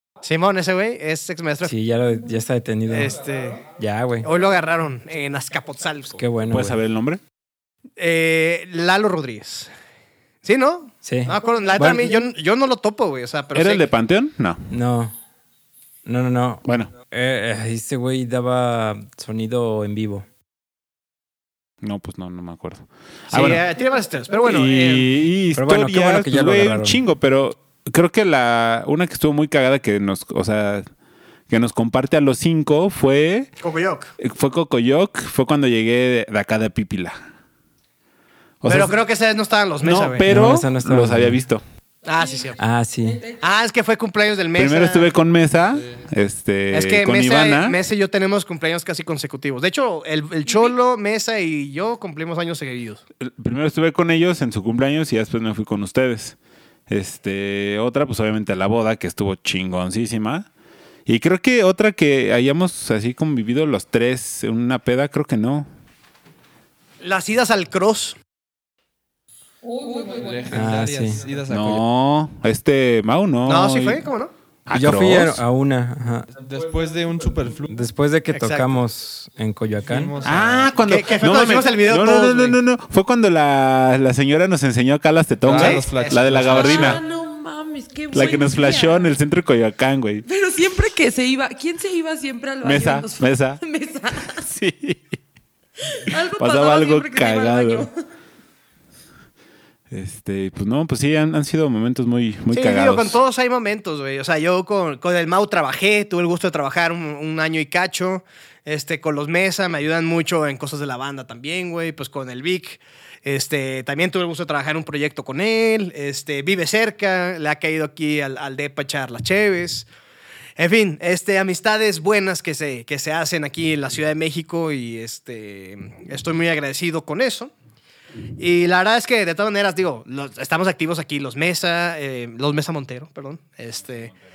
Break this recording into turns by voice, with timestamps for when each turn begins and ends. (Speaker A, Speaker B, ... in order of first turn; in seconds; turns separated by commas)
Speaker A: 0.2-1.7, Speaker B: 1.6-3.1, Speaker A: 2.9-3.6, Speaker B: 3.8-4.3, Speaker A: 4.2-6.2, Speaker B: 6.2-6.8, Speaker C: 6.5-7.2, Speaker A: 8.0-9.7, Speaker A: 10.4-13.9, Speaker B: 11.0-12.1, Speaker C: 13.5-14.7, Speaker B: 14.7-15.2, Speaker B: 16.1-20.3, Speaker C: 16.6-16.9, Speaker C: 21.8-23.6, Speaker A: 23.3-25.1, Speaker C: 24.5-30.9, Speaker B: 25.6-27.0, Speaker C: 31.5-33.5, Speaker A: 33.6-34.1, Speaker C: 34.2-37.2, Speaker C: 38.6-39.0, Speaker A: 38.7-40.3, Speaker C: 39.8-41.6, Speaker B: 40.3-41.4, Speaker A: 42.0-42.6, Speaker B: 42.6-43.2, Speaker A: 43.4-45.1, Speaker C: 44.5-47.8, Speaker D: 45.7-46.0, Speaker A: 46.7-53.0, Speaker E: 50.5-50.8, Speaker C: 53.2-56.4, Speaker C: 56.9-60.5, Speaker C: 61.1-65.7, Speaker A: 67.0-68.2, Speaker D: 69.8-71.8, Speaker B: 70.5-71.2, Speaker C: 71.5-74.0, Speaker A: 73.5-74.3, Speaker C: 74.7-75.4, Speaker B: 74.7-76.3, Speaker D: 76.3-77.7, Speaker B: 77.7-80.1, Speaker A: 78.3-78.8, Speaker D: 79.8-80.7, Speaker C: 80.2-87.0, Speaker A: 80.8-82.6, Speaker D: 85.4-87.0, Speaker A: 85.5-86.2, Speaker E: 86.5-89.1, Speaker C: 88.1-90.3, Speaker E: 90.3-94.5, Speaker C: 92.6-93.6, Speaker C: 94.3-95.2, Speaker E: 95.9-97.9, Speaker C: 96.4-97.9, Speaker C: 99.9-103.2, Speaker A: 102.5-119.9, Speaker A: 120.6-127.5, Speaker A: 128.4-134.1